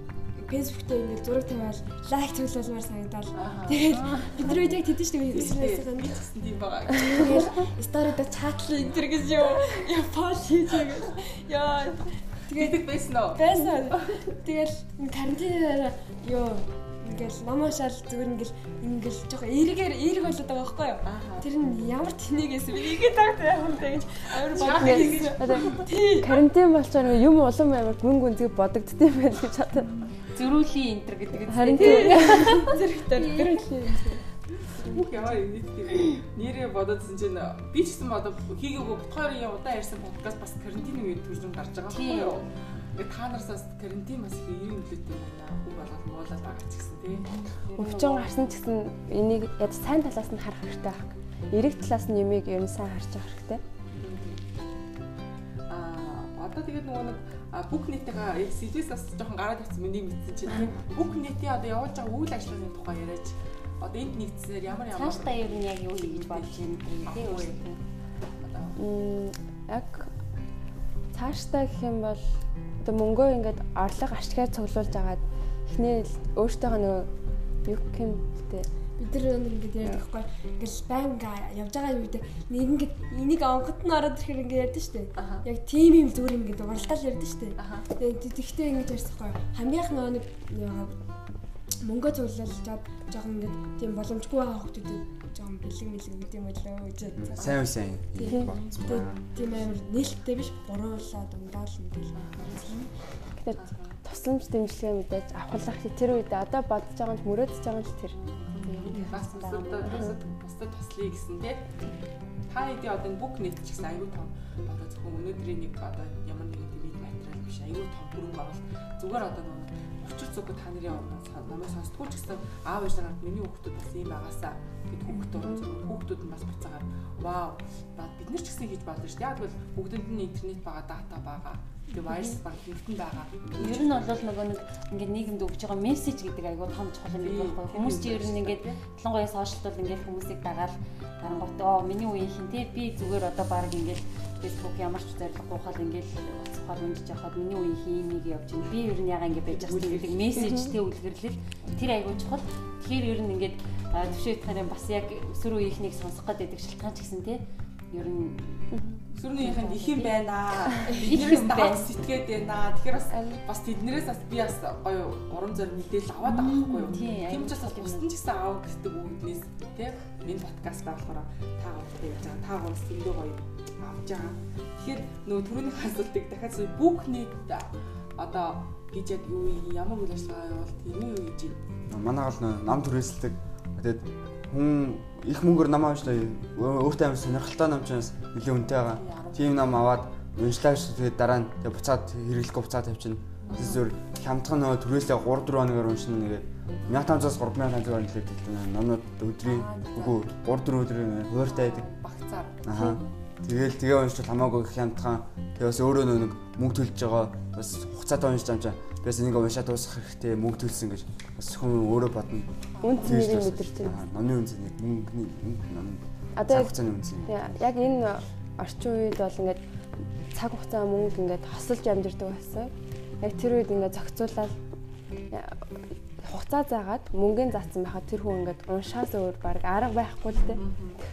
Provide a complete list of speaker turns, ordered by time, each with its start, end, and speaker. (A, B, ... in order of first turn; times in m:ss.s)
0:00.3-0:06.2 A
0:03.4-0:03.9 B
0:03.9-0:04.5 C
0:05.3-0:07.6 B
0:07.0-0:26.4 A
0:12.5-0:14.2 B
0:21.0-0:21.4 B
0:24.3-0:25.8 B
0:24.6-0:29.9 D
0:30.3-0:32.7 C
0:31.5-0:34.1 D
0:31.8-0:34.2 A
0:34.6-0:47.4 B
0:41.9-0:42.4 C
0:47.2-0:48.3 C
0:47.8-0:53.6 D
0:54.0-0:54.4 B
0:55.7-1:07.6 B
1:04.9-1:07.8 C
1:08.4-1:08.8 B
1:08.8-1:10.1 D
1:11.1-1:12.3 D
1:12.8-1:17.1 D
1:17.6-1:18.7 D
1:19.0-1:31.0 A
1:25.2-1:25.4 B
1:27.6-1:27.9 B
1:31.8-1:37.6 A
1:37.2-1:39.2 E
1:38.2-1:42.9 A
1:38.3-1:38.6 D
1:42.2-1:42.6 B
1:43.4-1:49.1 D
1:43.5-1:44.0 B
1:48.5-1:51.8 B
1:48.6-1:50.2 C
1:49.8-1:50.1 D
1:52.5-2:13.9 B
2:13.5-2:37.4 C
2:17.2-2:18.8 B
2:29.5-2:30.6 B
2:30.4-2:30.7 D
2:37.9-2:38.7 C
2:38.7-2:39.0 D
2:39.1-3:01.6 B
2:39.3-2:41.9 C
2:46.2-2:48.1 C
3:01.9-3:21.8 E
3:09.0-3:09.7 B
3:13.4-3:13.9 B
3:19.4-3:20.2 B
3:21.4-3:22.6 B
3:22.6-3:37.5 E
3:32.7-3:33.2 B
3:32.8-3:34.0 D
3:36.4-3:36.7 D
3:37.2-3:39.6 D
3:40.3-3:44.6 D
3:45.3-3:45.6 D
3:46.2-3:50.6 D
3:50.4-3:51.0 B